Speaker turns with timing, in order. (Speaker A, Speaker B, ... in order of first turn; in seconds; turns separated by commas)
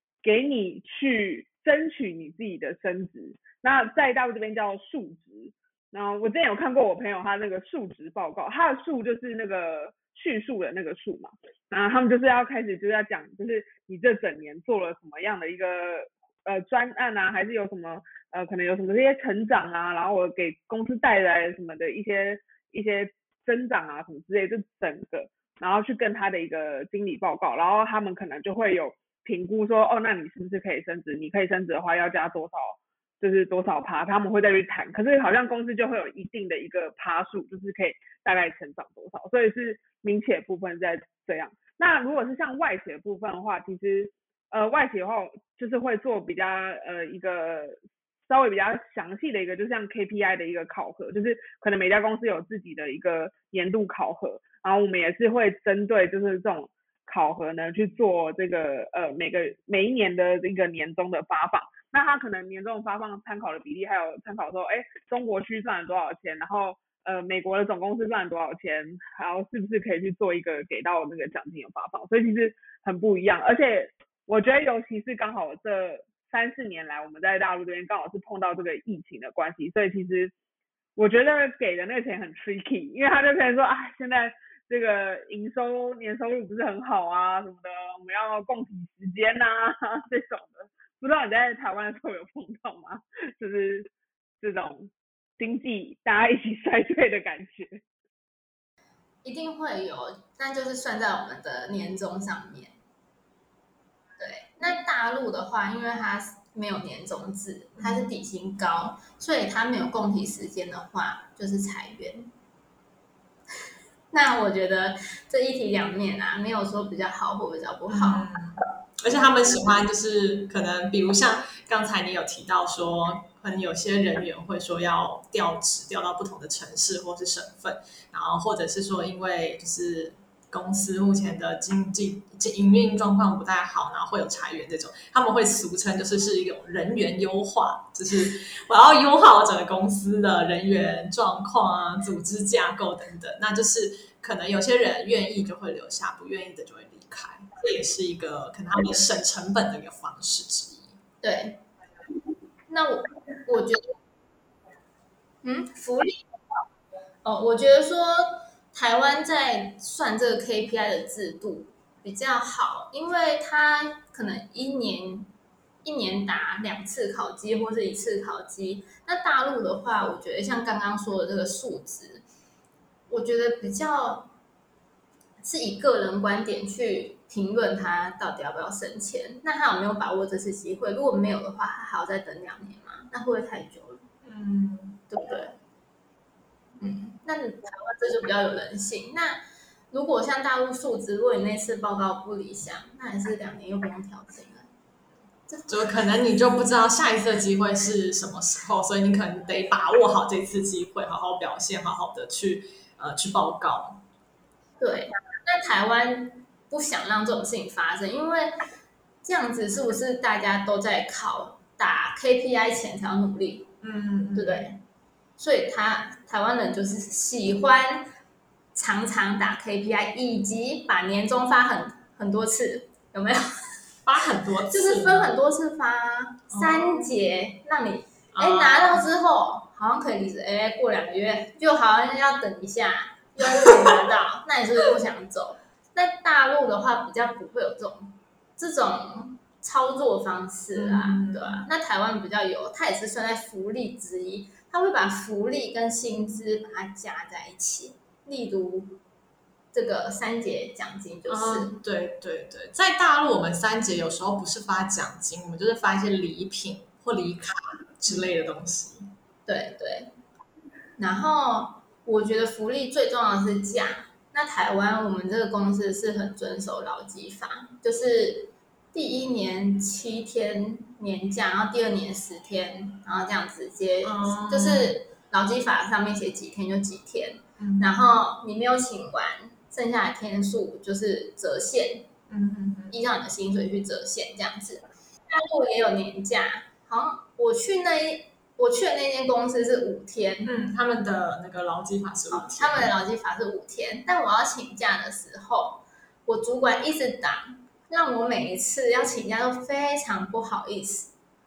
Speaker A: 0.2-80.3, Speaker A: 81.0-93.9, Speaker A: 94.4-97.8, Speaker B: 99.2-102.8, Speaker B: 104.2-112.3, Speaker C: 107.8-108.1, Speaker B: 114.1-118.3, Speaker C: 117.9-151.0, Speaker B: 151.2-151.6, Speaker B: 152.7-153.9, Speaker B: 155.4-156.2, Speaker B: 157.2-165.3, Speaker B: 165.8-172.2, Speaker B: 173.1-174.3, Speaker B: 175.4-184.0, Speaker C: 184.2-185.0, Speaker B: 185.1-185.5, Speaker B: 186.8-194.7, Speaker B: 195.5-196.0, Speaker C: 195.7-204.0, Speaker B: 204.8-208.6, Speaker B: 209.2-213.7, Speaker C: 213.8-214.7, Speaker B: 214.3-214.8, Speaker B: 215.4-218.1, Speaker B: 218.7-223.7, Speaker C: 224.1-225.3, Speaker B: 224.7-249.0, Speaker C: 226.5-227.1, Speaker C: 228.3-229.0, Speaker C: 233.6-233.9, Speaker C: 240.7-241.7, Speaker B: 249.7-251.7, Speaker C: 251.3-259.1, Speaker B: 259.4-260.1, Speaker B: 261.0-282.1, Speaker C: 274.0-274.9, Speaker C: 277.6-277.9, Speaker C: 282.3-283.0, Speaker B: 282.9-290.5, Speaker C: 290.4-292.9, Speaker B: 292.3-301.1